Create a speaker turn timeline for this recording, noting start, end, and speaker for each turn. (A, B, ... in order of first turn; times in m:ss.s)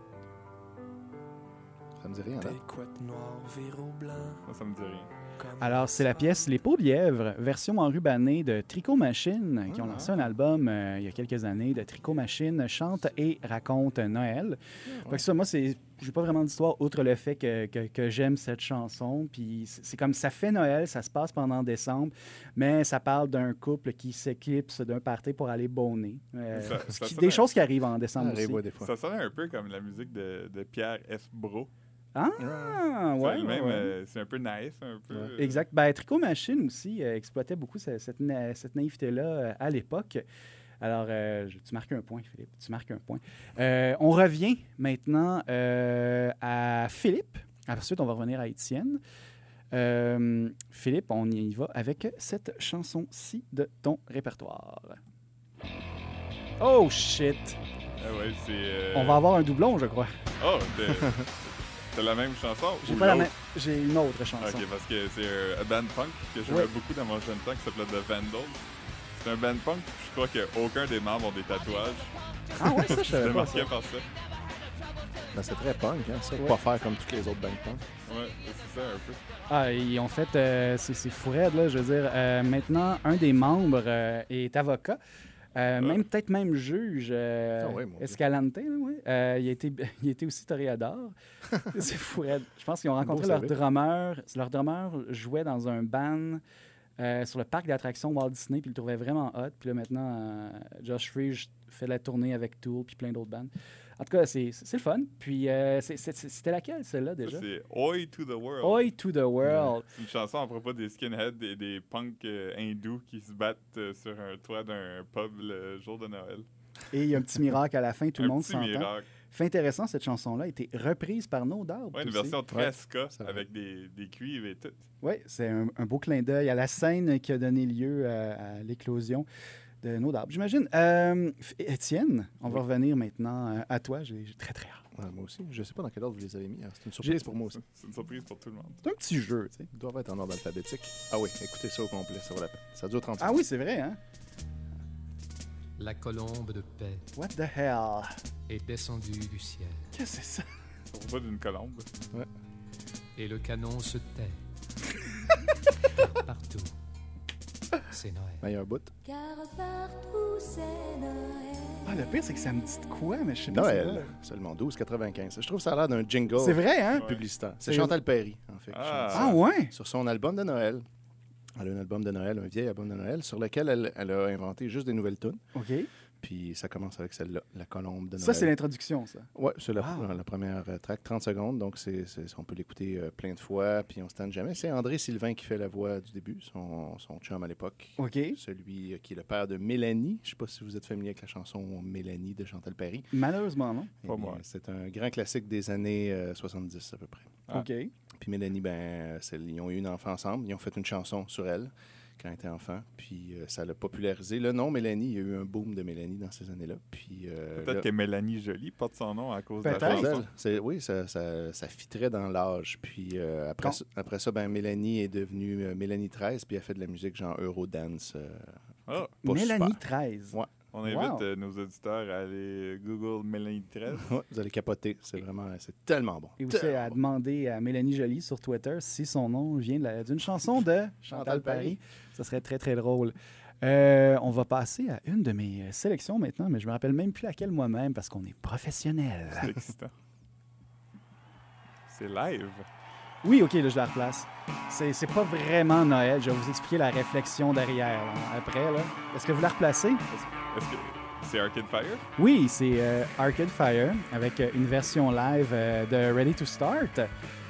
0:02.0-0:02.6 A
0:02.4-0:04.4 B
0:04.5-0:05.1 C
0:05.4-0:06.3 B
0:05.6-0:28.6 D
0:09.7-0:10.3 A
0:14.9-0:15.2 A
0:26.5-0:27.5 C
0:28.2-0:28.9 A
0:28.8-0:31.7 C
0:32.2-0:33.9 D
0:32.4-0:32.8 A
0:33.2-0:35.6 C
0:35.4-0:40.2 D
0:40.8-0:49.0 D
0:49.7-0:55.0 D
0:56.6-0:57.6 D
0:58.0-0:59.3 C
0:58.9-1:00.1 D
1:00.4-1:03.3 C
1:01.0-1:01.2 A
1:02.8-1:04.6 D
1:04.4-1:14.1 C
1:12.6-1:13.7 D
1:15.3-1:17.8 A
1:18.1-1:19.2 C
1:19.5-1:25.0 D
1:25.6-1:31.2 D
1:27.6-1:28.2 A
1:31.7-1:36.4 D
1:33.0-1:33.6 A
1:37.0-1:47.4 D
1:47.2-1:48.9 C
1:48.6-1:49.9 D
1:49.9-1:56.5 C
1:56.9-2:02.4 D
1:58.2-1:59.1 C
2:01.9-2:04.8 C
2:02.5-2:03.4 A
2:05.0-2:09.3 D
2:09.8-2:14.8 D
2:14.9-2:17.6 A
2:17.5-2:18.8 C
2:18.8-2:19.7 D
2:19.7-2:23.4 A
2:23.2-2:24.0 D
2:25.8-2:27.1 E
2:27.2-2:28.1 D
2:28.5-2:29.9 E
2:29.9-2:30.5 D
2:30.9-2:31.9 C
2:33.2-2:34.4 E
2:35.8-2:36.8 E
2:37.9-2:38.5 E
2:38.4-2:38.9 A
2:39.0-2:42.0 F
2:41.8-2:44.1 D
2:43.5-2:50.9 A
2:46.4-2:47.1 D
2:47.6-2:48.0 D
2:48.7-2:49.4 C
2:49.1-2:49.7 D
2:51.6-2:55.4 A
2:55.6-2:55.9 D
2:56.2-2:58.6 A
2:58.2-3:00.1 D
2:59.3-3:13.1 A
3:08.0-3:08.4 D
3:13.1-3:13.9 D
3:14.0-3:17.4 A
3:14.1-3:14.4 C
3:17.5-3:17.9 D
3:18.2-3:27.9 A
3:27.6-3:30.3 C
3:29.6-3:30.1 D
3:29.7-3:38.6 A
3:38.9-3:39.1 C
3:39.1-3:39.8 A
3:39.2-3:41.2 D
3:40.7-3:44.1 C
3:43.9-3:47.0 A
3:46.4-3:59.5 D
3:51.1-3:51.8 A
3:59.4-3:59.9 C
4:01.9-4:02.7 C
4:03.2-4:10.0 D
4:10.1-4:12.0 C
4:12.2-4:17.1 D